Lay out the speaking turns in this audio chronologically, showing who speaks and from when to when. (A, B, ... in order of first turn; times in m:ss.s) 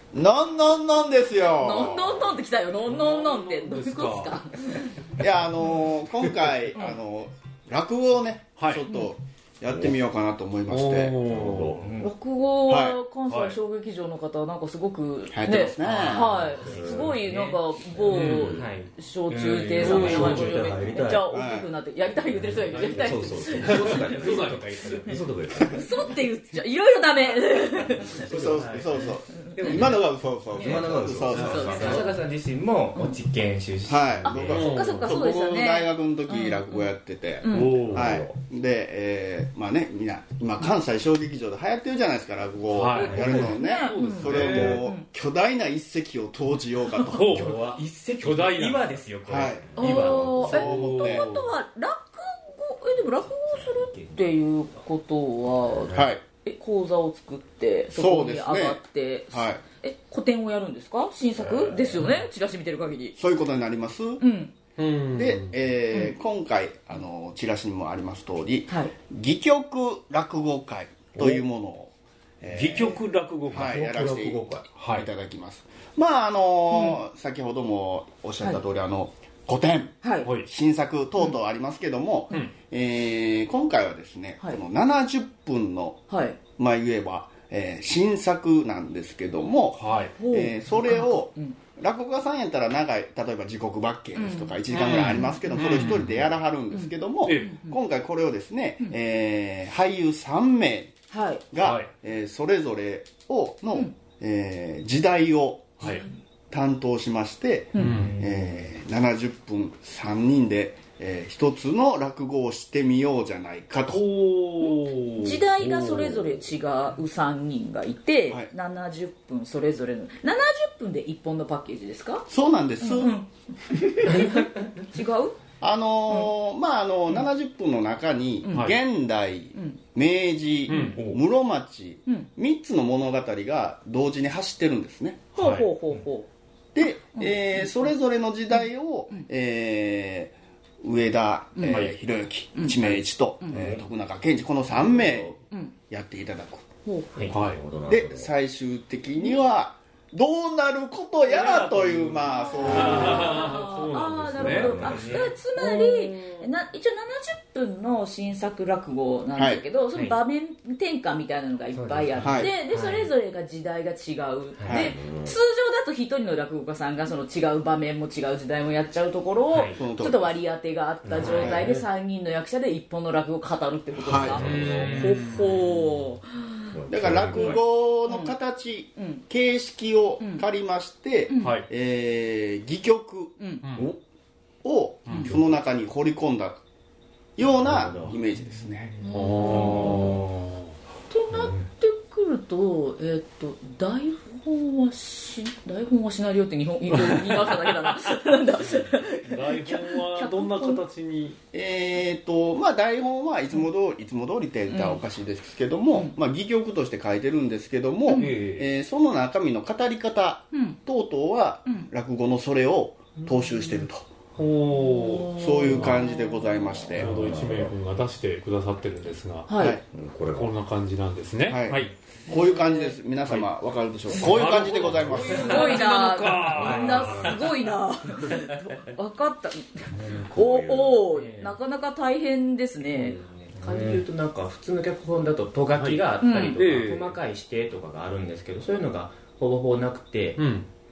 0:00.1-0:02.3 A
0:01.6-0:05.0 B
0:02.9-0:04.4 C
0:05.2-0:11.3 A
0:08.6-0:08.8 C
0:09.7-0:10.0 D
0:10.7-0:11.9 C
0:11.3-0:11.8 D
0:11.8-0:12.1 E
0:12.0-0:24.0 B
0:12.7-0:13.0 A
0:13.3-0:13.6 C
0:15.3-0:16.3 A
0:15.8-0:20.8 E
0:16.6-0:17.2 D
0:18.1-0:18.7 D
0:18.1-0:18.5 C
0:19.8-0:21.3 D
0:19.8-0:20.3 C
0:21.2-0:21.7 A
0:22.7-0:24.7 C
0:22.9-0:25.9 D
0:23.7-0:25.3 E
0:25.7-0:28.2 B
0:28.0-0:30.0 E
0:28.2-0:32.1 A
0:28.4-0:28.9 C
0:29.4-0:29.8 B
0:29.7-0:30.0 D
0:30.5-0:32.1 D
0:30.5-0:34.7 E
0:31.3-0:31.7 C
0:31.4-0:32.0 B
0:33.9-0:47.5 A
0:34.3-0:36.9 B
0:34.4-0:35.1 C
0:37.4-0:37.8 B
0:37.5-0:38.3 C
0:37.5-0:38.4 D
0:42.7-0:44.8 C
0:43.0-0:45.1 B
0:43.0-0:43.6 D
0:44.2-0:44.8 D
0:47.0-0:49.0 C
0:47.3-0:50.6 E
0:49.3-0:51.3 A
0:49.8-1:03.2 B
0:50.4-0:51.4 C
0:53.4-0:54.3 E
0:55.9-0:56.2 A
0:58.0-0:59.6 A
1:03.2-1:04.2 A
1:04.2-1:04.5 B
1:04.8-1:05.6 C
1:05.2-1:40.9 A
1:08.7-1:08.9 B
1:11.2-1:11.4 D
1:12.5-1:15.1 C
1:13.8-1:14.6 D
1:16.7-1:17.0 B
1:20.0-1:20.3 B
1:20.2-1:20.5 C
1:26.1-1:26.4 B
1:29.8-1:30.2 C
1:30.2-1:31.6 B
1:34.2-1:36.0 B
1:34.7-1:36.2 C
1:36.7-1:37.8 B
1:37.2-1:37.6 C
1:41.1-1:41.4 B
1:41.5-1:54.1 A
1:41.6-1:41.9 C
1:45.8-1:46.1 B
1:45.8-1:46.1 C
1:47.7-1:48.1 B
1:47.8-1:48.2 C
1:47.8-1:48.6 E
1:53.9-1:56.4 C
1:54.7-2:02.3 B
2:02.3-2:03.2 A
2:02.8-2:03.3 B
2:03.8-2:05.4 B
2:04.0-2:04.8 E
2:05.6-2:15.4 A
2:08.4-2:08.8 B
2:08.5-2:08.8 C
2:10.7-2:11.0 B
2:10.7-2:11.2 C
2:15.4-2:16.3 B
2:15.4-2:15.7 C
2:16.8-2:26.6 A
2:17.2-2:17.9 B
2:18.5-2:19.2 B
2:21.6-2:21.9 B
2:21.6-2:21.9 C
2:22.6-2:23.6 B
2:23.5-2:23.8 D
2:24.7-2:25.4 D
2:26.8-2:27.1 B
2:27.3-2:27.7 C
2:27.3-2:28.3 D
2:27.9-2:33.5 A
2:29.2-2:29.5 B
2:31.2-2:34.9 C
2:32.3-2:56.8 B
2:32.6-2:33.2 D
2:34.0-2:35.3 D
2:34.5-2:35.4 E
2:35.6-2:36.5 C
2:39.4-2:39.6 A
2:41.7-2:43.1 E
2:42.2-2:42.5 A
2:44.7-2:44.9 A
2:44.7-2:45.4 D
2:49.5-2:49.8 E
2:49.8-2:50.4 A
2:51.0-2:51.6 E
2:51.2-2:51.7 A
2:54.0-2:55.2 D
2:54.0-2:54.5 A
2:54.2-2:55.8 C
2:56.7-2:57.6 D
2:56.9-3:03.4 A
2:57.3-2:58.4 B
2:59.0-2:59.2 B
3:01.3-3:01.6 B
3:01.4-3:01.7 C
3:03.4-3:03.6 B
3:03.6-3:03.9 C
3:04.6-3:06.6 A
3:07.4-3:09.0 A
3:07.4-3:08.2 D
3:09.0-3:10.1 B
3:09.1-3:10.6 C
3:09.6-3:10.2 D
3:09.8-3:10.1 E
3:11.1-3:20.8 B
3:19.3-3:21.4 C
3:21.5-3:34.1 A
3:24.7-3:25.0 B
3:28.1-3:28.3 B
3:28.1-3:28.7 C
3:30.5-3:30.8 B
3:34.4-3:36.0 C
3:34.7-3:37.0 B
3:35.4-3:37.1 A
3:37.0-3:39.6 C
3:37.0-3:37.8 D
3:39.5-3:39.8 B
3:39.6-3:39.8 A
3:39.9-3:40.5 D
3:40.3-3:41.9 C
3:41.5-3:45.6 A
3:42.3-3:43.0 B
3:44.1-3:47.4 C
3:45.3-3:53.2 B
3:46.6-3:47.4 D
3:49.9-3:51.0 D
3:51.1-3:51.6 E
3:53.0-4:00.4 E
3:53.6-3:54.0 D
3:55.7-3:57.2 C
3:56.2-3:56.6 B
4:00.4-4:00.7 C